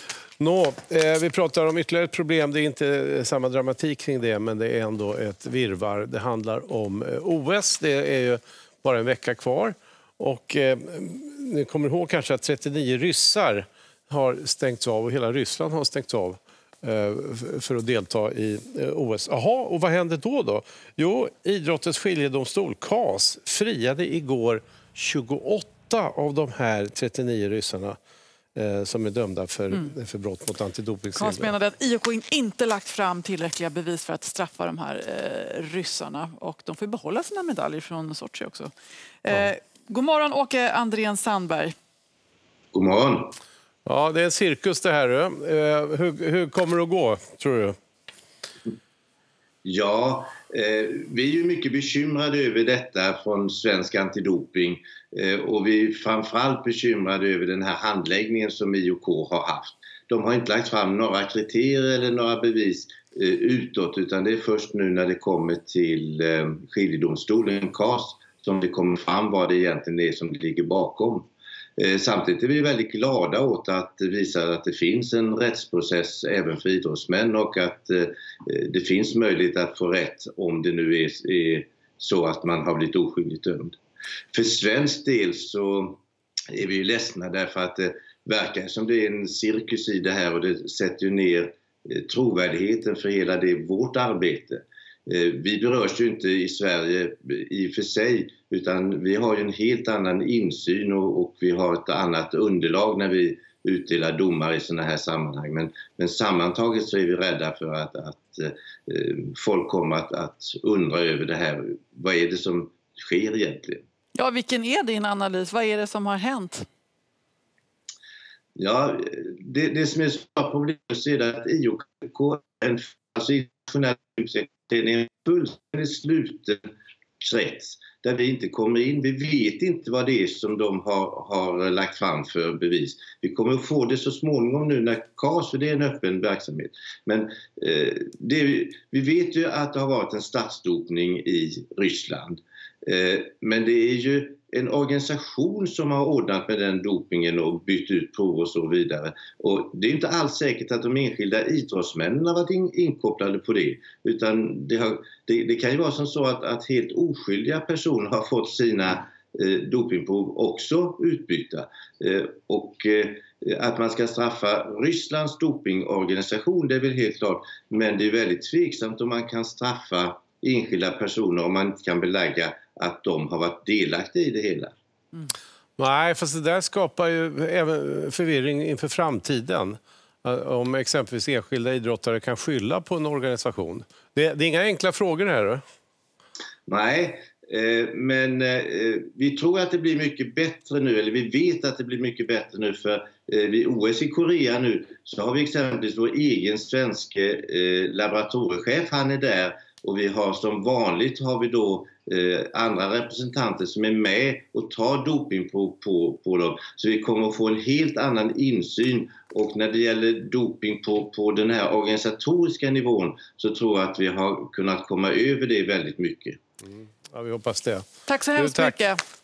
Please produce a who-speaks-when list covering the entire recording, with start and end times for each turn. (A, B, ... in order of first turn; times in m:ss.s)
0:00.4-0:28.0 A
0:28.5-0:31.5 A
0:31.1-0:38.7 B
0:39.2-0:41.7 B
0:42.7-0:43.3 C
0:43.8-0:47.7 A
0:49.6-1:23.8 C
1:24.3-1:26.0 C
1:26.5-1:53.8 C
1:54.1-1:56.6 B
1:58.6-2:06.6 C
2:07.2-2:54.7 C
2:55.8-3:05.6 A
3:06.7-3:36.4 C
3:36.6-3:38.8 A
3:38.0-3:39.0 B